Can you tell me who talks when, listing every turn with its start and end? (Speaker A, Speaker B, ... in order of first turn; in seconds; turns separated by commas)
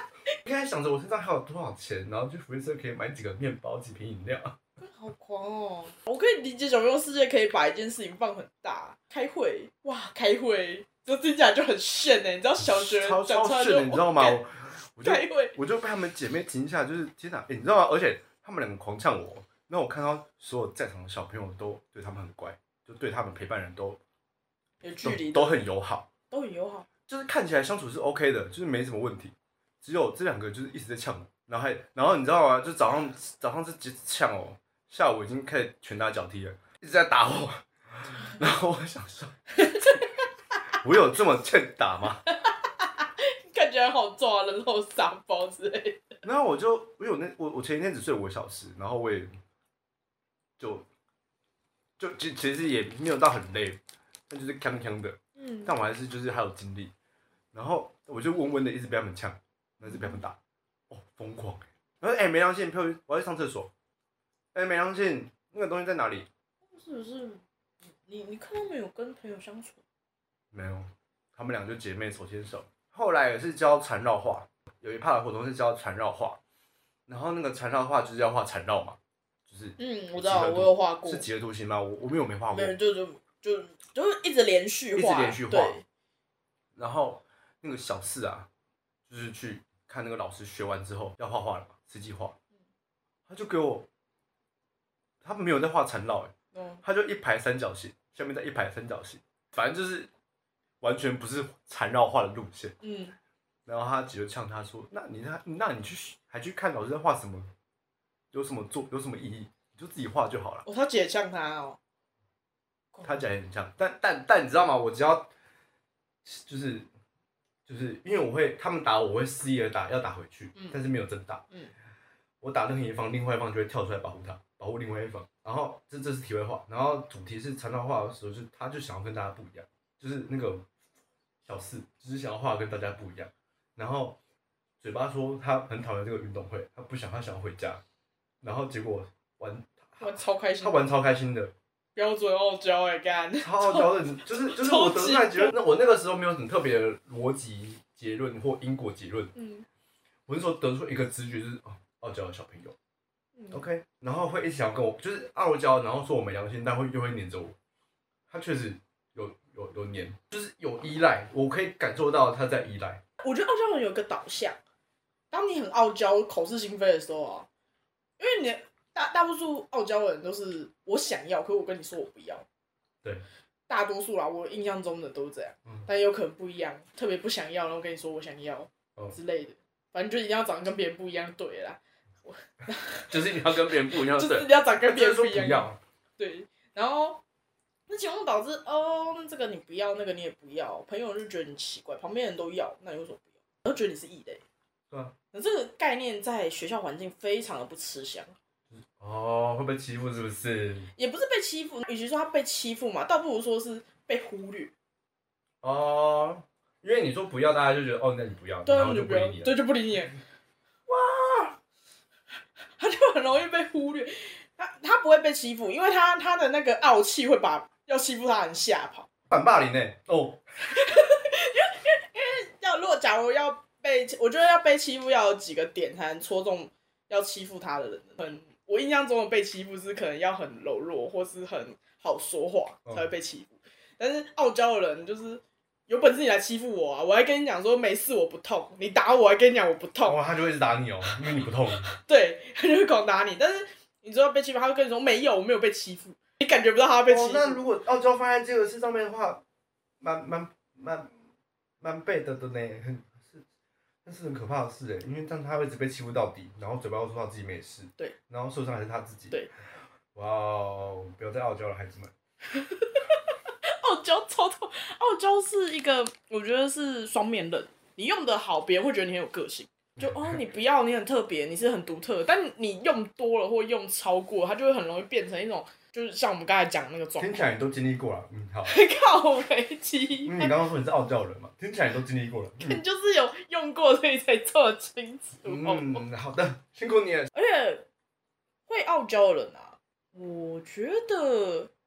Speaker A: 0.4-4.6, Speaker B: 4.8-14.4, Speaker A: 12.6-24.0, Speaker B: 15.0-15.6, Speaker B: 24.8-25.6, Speaker A: 25.0-26.1, Speaker B: 26.3-26.9, Speaker A: 27.1-39.6, Speaker B: 39.6-40.0, Speaker A: 40.7-42.2, Speaker B: 42.3-46.1, Speaker A: 46.2-49.3, Speaker A: 50.6-50.9, Speaker A: 52.0-56.9, Speaker B: 55.4-55.7, Speaker A: 57.5-60.4, Speaker B: 59.9-60.2, Speaker A: 60.9-63.7, Speaker A: 64.5-66.3, Speaker B: 66.7-69.8, Speaker A: 70.5-76.4, Speaker A: 77.1-82.7, Speaker B: 79.8-81.3, Speaker B: 82.5-85.8, Speaker A: 84.9-85.8, Speaker A: 86.7-88.5, Speaker A: 89.1-92.3, Speaker A: 93.3-93.9, Speaker A: 95.2-100.1, Speaker B: 96.5-96.8, Speaker A: 100.8-102.7, Speaker B: 102.8-103.1, Speaker A: 103.7-107.5, Speaker A: 108.3-110.6, Speaker B: 110.7-111.8, Speaker A: 113.0-115.3, Speaker A: 116.2-116.9, Speaker A: 117.7-121.4, Speaker A: 122.4-130.7, Speaker A: 131.4-134.2, Speaker A: 134.8-137.8, Speaker A: 138.4-141.5, Speaker B: 140.0-140.8, Speaker B: 141.9-145.5, Speaker A: 143.4-149.3, Speaker B: 149.3-149.7, Speaker A: 150.3-152.8, Speaker B: 153.3-153.6, Speaker A: 153.5-157.5, Speaker A: 158.3-163.0, Speaker B: 163.2-164.6, Speaker B: 165.3-167.5, Speaker B: 168.2-172.4, Speaker B: 173.7-187.2, Speaker A: 183.1-185.8, Speaker B: 187.9-194.4, Speaker A: 194.9-195.1, Speaker B: 195.3-198.3, Speaker A: 198.7-200.9, Speaker B: 200.9-204.7, Speaker A: 205.6-209.6, Speaker B: 208.7-210.2, Speaker A: 210.9-211.6, Speaker B: 212.8-219.1, Speaker A: 219.3-220.4, Speaker B: 220.6-240.2, Speaker A: 240.0-241.9, Speaker B: 241.9-247.6, Speaker A: 247.1-249.4, Speaker A: 250.0-251.1, Speaker A: 251.8-253.4, Speaker A: 254.0-259.4, Speaker A: 260.1-262.1, Speaker B: 262.5-277.4, Speaker A: 270.0-270.4, Speaker A: 277.2-278.8, Speaker B: 278.6-280.5, Speaker A: 280.2-282.8, Speaker B: 282.6-286.0, Speaker A: 285.4-287.3, Speaker B: 287.3-287.9, Speaker B: 288.7-291.7